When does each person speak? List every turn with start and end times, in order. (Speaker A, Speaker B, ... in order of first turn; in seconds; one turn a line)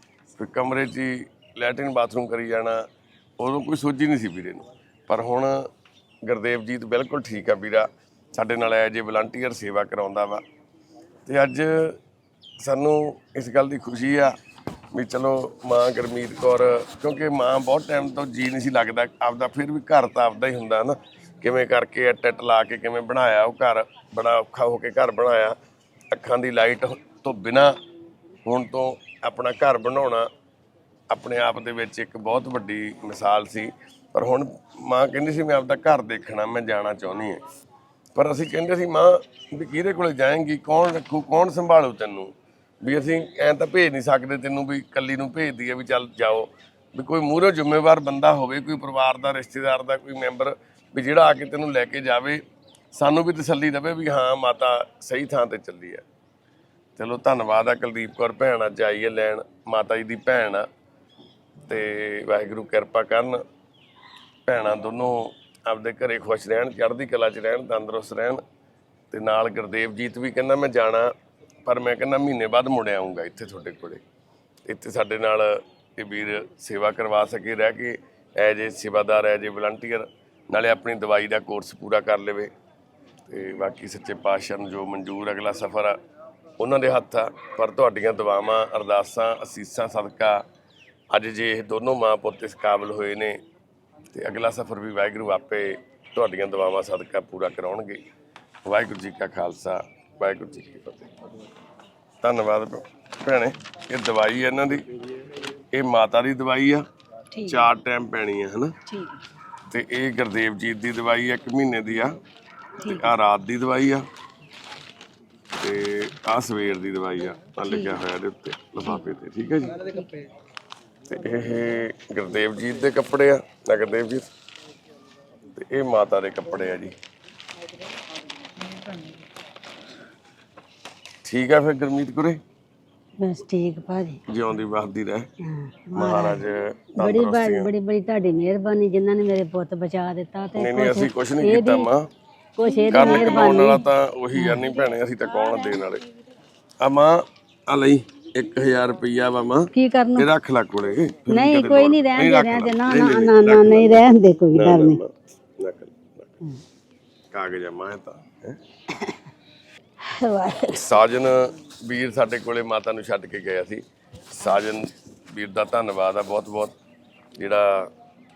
Speaker A: 0.3-2.8
Speaker A: 3.4-5.7
Speaker A: 6.2-10.4
Speaker A: 11.2-12.0
Speaker A: 12.6-14.3
Speaker A: 14.9-25.6
Speaker A: 26.1-27.8
Speaker A: 28.4-30.3
Speaker A: 31.1-37.4
Speaker A: 38.1-52.4
Speaker A: 52.9-56.0
Speaker A: 57.0-60.6
Speaker A: 61.7-63.4
Speaker A: 64.5-68.4
Speaker A: 69.1-71.1
Speaker A: 71.6-74.0
Speaker A: 74.7-82.5
Speaker A: 83.3-86.0
Speaker A: 86.6-90.4
Speaker A: 91.1-93.4
Speaker A: 94.1-98.0
Speaker A: 98.7-101.1
Speaker A: 102.2-104.8
Speaker A: 105.7-106.8
Speaker B: 107.3-107.7
Speaker A: 107.5-108.7
Speaker B: 108.8-109.2
Speaker A: 109.7-112.2
Speaker B: 112.8-113.2
Speaker A: 112.8-114.0
Speaker A: 115.6-119.8
Speaker B: 117.7-118.0
Speaker B: 119.7-120.3
Speaker A: 121.1-124.2
Speaker A: 125.5-126.9
Speaker B: 128.6-129.2
Speaker A: 131.2-132.4
Speaker C: 133.2-134.2
Speaker A: 134.3-135.3
Speaker C: 135.4-136.4
Speaker A: 135.9-137.7
Speaker C: 137.0-141.9
Speaker A: 140.5-142.0
Speaker C: 142.6-144.6
Speaker B: 142.6-143.9
Speaker A: 142.9-146.0
Speaker B: 144.5-146.4
Speaker A: 146.8-156.3
Speaker C: 149.7-150.3
Speaker C: 151.3-155.0
Speaker A: 157.3-158.6
Speaker C: 160.0-161.0
Speaker A: 160.7-166.7
Speaker A: 167.4-167.9